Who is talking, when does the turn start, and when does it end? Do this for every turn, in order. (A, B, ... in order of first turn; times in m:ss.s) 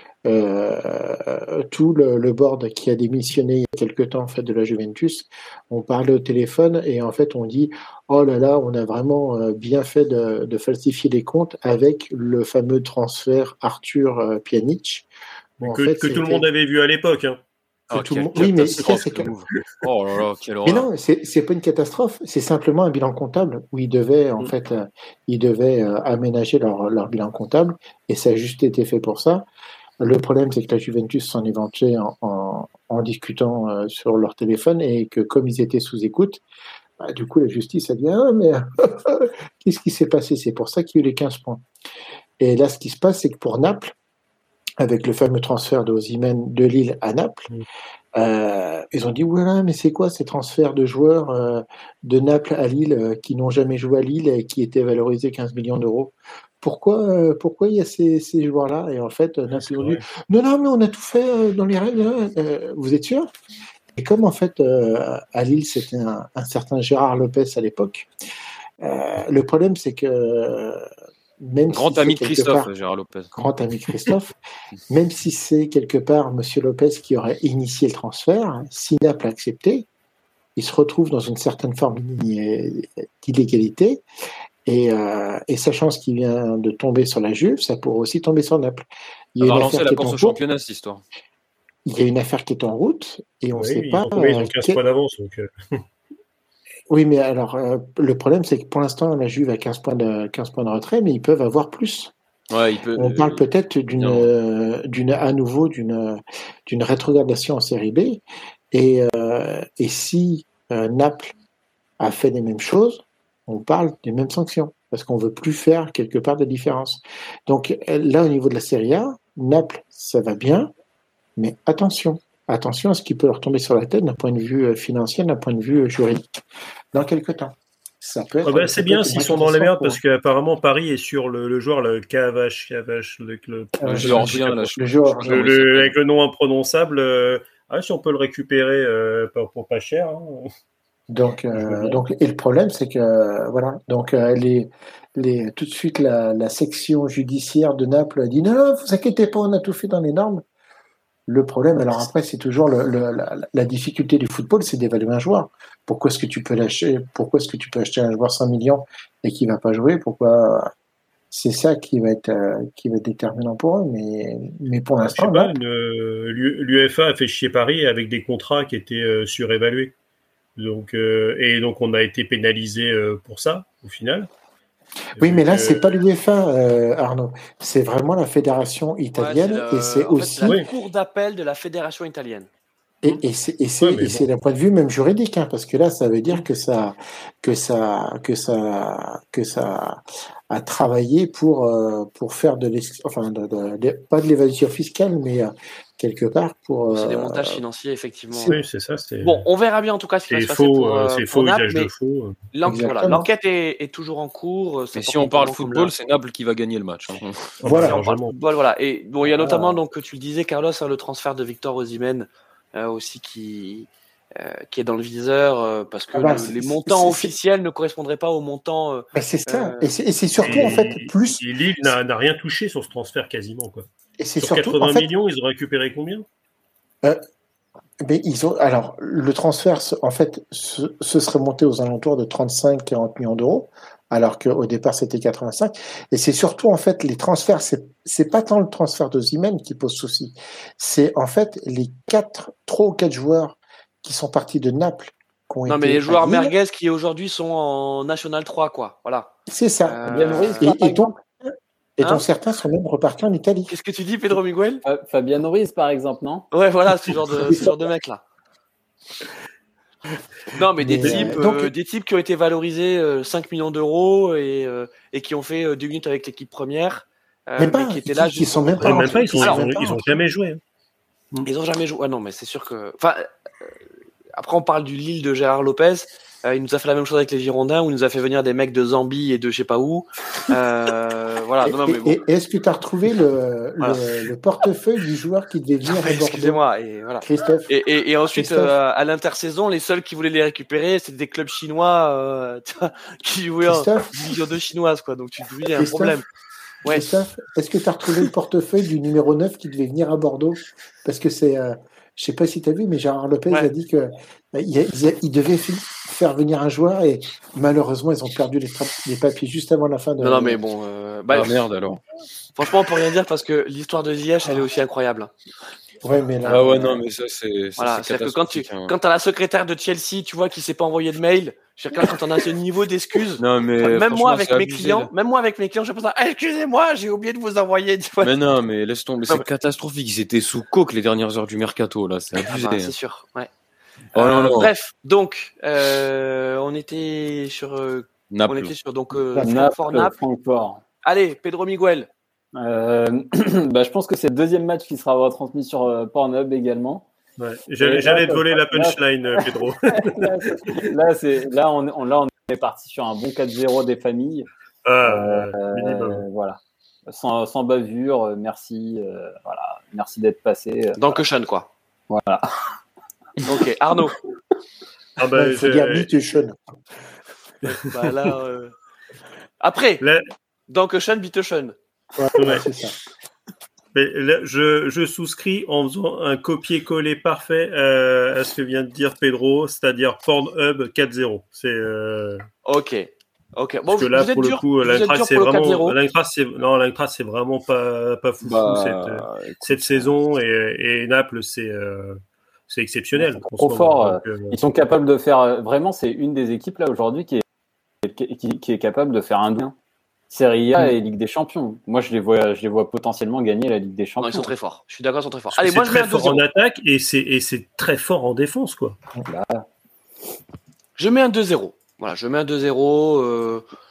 0:00.2-0:15.1 A
0:15.6-0:17.4 B
0:15.6-0:16.5 A
0:17.9-0:20.9 C
0:17.9-0:19.3 A
0:20.6-0:29.4 A
0:30.0-0:36.4 A
0:37.0-0:41.6 A
0:42.4-0:43.9 A
0:44.8-0:47.5 A
0:48.1-1:03.3 A
0:59.5-1:00.0 B
1:03.9-1:08.1 A
1:08.8-1:10.9 A
1:11.4-1:12.7 A
1:11.7-1:13.5 C
1:13.4-1:14.3 A
1:14.9-1:19.9 A
1:20.6-1:24.0 A
1:24.6-1:30.4 A
1:29.4-1:31.0 C
1:31.8-1:34.8 A
1:33.5-1:35.8 B
1:36.9-1:42.1 A
1:42.5-1:43.4 C
1:43.0-1:51.3 A
1:43.9-1:44.3 C
1:52.0-2:00.7 A
2:01.4-2:06.4 A
2:06.9-2:10.0 A
2:08.4-2:14.6 B
2:13.8-2:15.4 A
2:13.8-2:16.0 C
2:15.2-2:20.5 B
2:21.1-2:30.4 A
2:21.6-2:22.0 B
2:31.3-2:40.7 A
2:41.3-2:45.5 A
2:45.0-2:49.9 B
2:50.6-2:54.3 B
2:55.1-3:00.6 A
2:55.2-2:55.8 B
2:59.2-3:02.5 D
3:03.0-3:17.6 A
3:03.8-3:04.2 B
3:16.9-3:18.5 D
3:18.4-3:19.5 B
3:19.2-3:21.9 D
3:20.3-3:22.4 B
3:22.5-3:25.9 D
3:22.6-3:23.2 A
3:24.9-3:27.6 C
3:27.6-3:28.3 B
3:27.6-3:28.0 A
3:27.7-3:39.9 D
3:29.3-3:29.8 A
3:36.1-3:37.3 A
3:39.1-3:41.9 A
3:40.4-3:43.9 B
3:44.2-3:45.1 A
3:44.4-3:46.2 B
3:48.0-4:06.5 A
4:05.7-4:09.3 D
4:09.5-4:13.7 A
4:09.8-4:10.9 D
4:10.0-4:11.1 E
4:13.7-4:14.8 D
4:14.8-4:16.5 E
4:16.5-4:18.2 D
4:20.5-4:29.6 D
4:20.8-4:21.7 A
4:21.0-4:21.3 B
4:27.6-4:30.2 A
4:28.8-4:30.6 B
4:31.4-4:33.3 D
4:34.4-4:42.2 D
4:41.6-4:46.6 A
4:45.8-4:56.2 D
4:47.2-4:47.7 A
4:48.3-4:48.8 A
4:53.7-4:54.2 A
4:55.7-4:56.2 A
4:56.8-5:10.6 A
5:10.2-5:11.6 D
5:11.3-5:12.0 C
5:12.6-5:15.3 D
5:16.0-5:17.0 A
5:16.4-5:18.9 C
5:17.8-5:28.3 D
5:23.4-5:25.1 C
5:28.2-5:32.9 C
5:32.4-5:33.5 D
5:34.1-5:40.2 D
5:34.1-5:34.7 C
5:38.3-5:38.7 C
5:39.4-5:40.8 E
5:41.0-5:42.1 D
5:42.5-5:47.1 E
5:47.4-5:50.8 B
5:47.8-5:54.5 E
5:54.8-5:56.2 B
5:55.0-6:01.1 E
6:01.0-6:01.7 D
6:02.1-6:02.7 E
6:03.4-6:04.2 D
6:05.2-6:06.1 B
6:05.3-6:06.6 A
6:07.6-6:08.7 D
6:07.7-6:08.1 B
6:09.6-6:10.0 D
6:10.0-6:10.2 B
6:10.7-6:11.7 D
6:12.2-6:13.0 A
6:12.4-6:12.6 B
6:13.9-6:22.4 B
6:22.6-6:26.0 D
6:23.9-6:34.6 B
6:28.4-6:30.1 C
6:33.2-6:37.4 E
6:38.0-6:39.7 E
6:40.3-6:44.5 E
6:44.2-6:46.4 D
6:45.5-6:49.0 B
6:49.2-6:49.6 E
6:51.0-6:53.6 D